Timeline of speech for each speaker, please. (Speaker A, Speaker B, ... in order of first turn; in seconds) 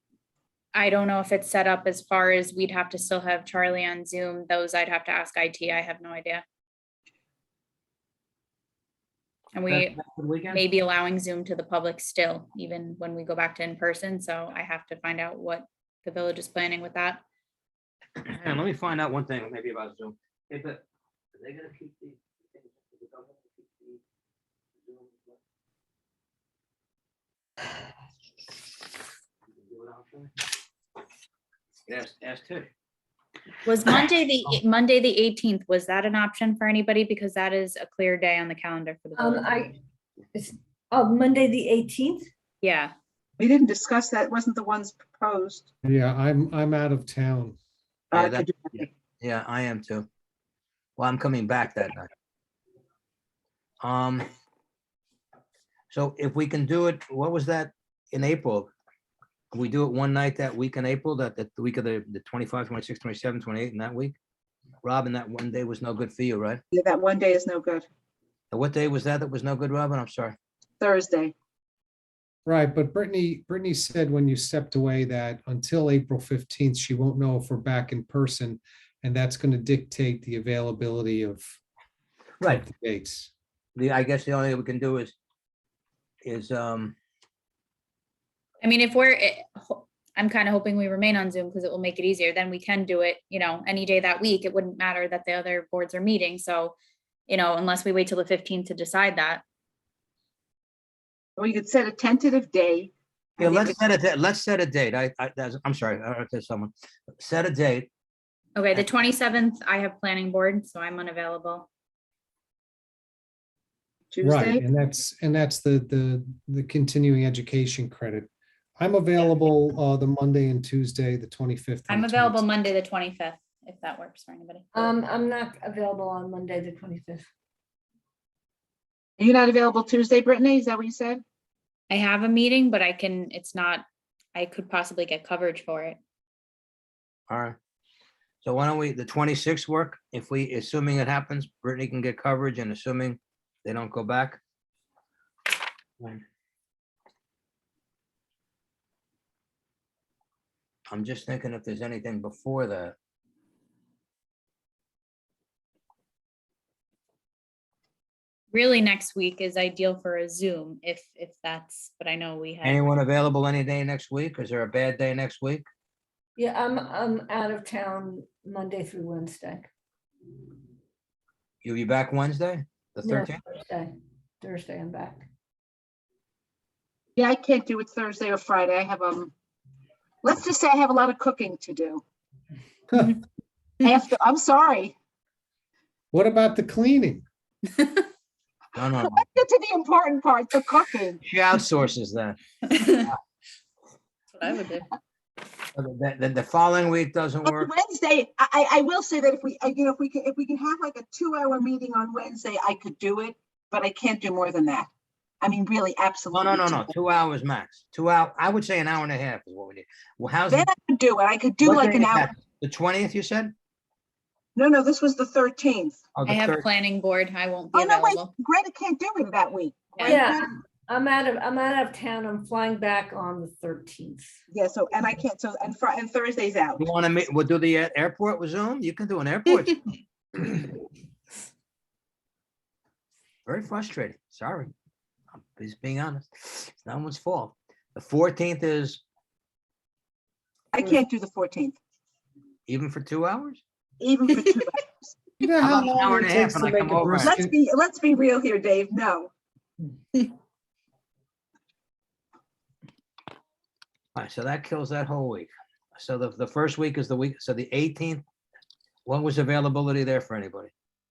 Speaker A: 0.7-6.4, 9.6-10.0, 10.5-17.2, 33.7-39.6, 42.6-42.9, 88.6-96.8, 97.3-99.4, 108.6-111.7, 121.9-124.7, 131.9-136.0, 158.5-162.9, 187.8-188.0, 192.7-193.1, 194.3-194.9, 216.3-218.3, 220.0-220.2
Speaker B: 9.7-10.6, 18.2-20.8, 21.4-24.0, 24.8-25.4, 29.6-30.3, 31.9-32.7, 48.1-50.1, 51.0-52.1, 53.8-54.3, 55.9-58.7, 59.5-64.2, 64.8-66.6, 68.5-70.4, 83.8-85.1, 86.2-87.0, 103.4-107.9, 137.3-137.6, 138.4-144.4, 150.9-153.0, 162.6-165.7, 171.6-173.4, 188.8-189.2, 191.2-193.2, 195.8-197.7, 206.3-210.7, 211.6-213.5, 216.2-216.7, 226.8-229.8, 233.5-234.7, 235.6-239.0, 242.7-243.6, 245.6-247.3, 254.2-258.2, 259.1-260.7
Speaker C: 39.2-39.8, 40.3-42.3, 124.7-127.2, 166.4-169.7, 173.0-173.9, 174.4-175.3, 220.0-224.4
Speaker D: 43.4-45.7, 48.1-48.9, 66.7-67.9, 70.8-71.3, 101.4-103.8, 114.1-114.6, 129.2-131.2, 177.2-179.3, 180.2-182.0, 183.8-184.9, 189.0-191.2, 197.4-204.9, 205.4-206.8, 210.5-212.3, 214.6-216.0, 217.7-220.5, 224.5-226.8, 240.7-241.8, 244.0-245.2, 247.1-249.3
Speaker E: 45.9-47.6, 72.5-81.4, 82.4-83.3, 114.2-122.4, 186.1-187.2, 245.4-247.5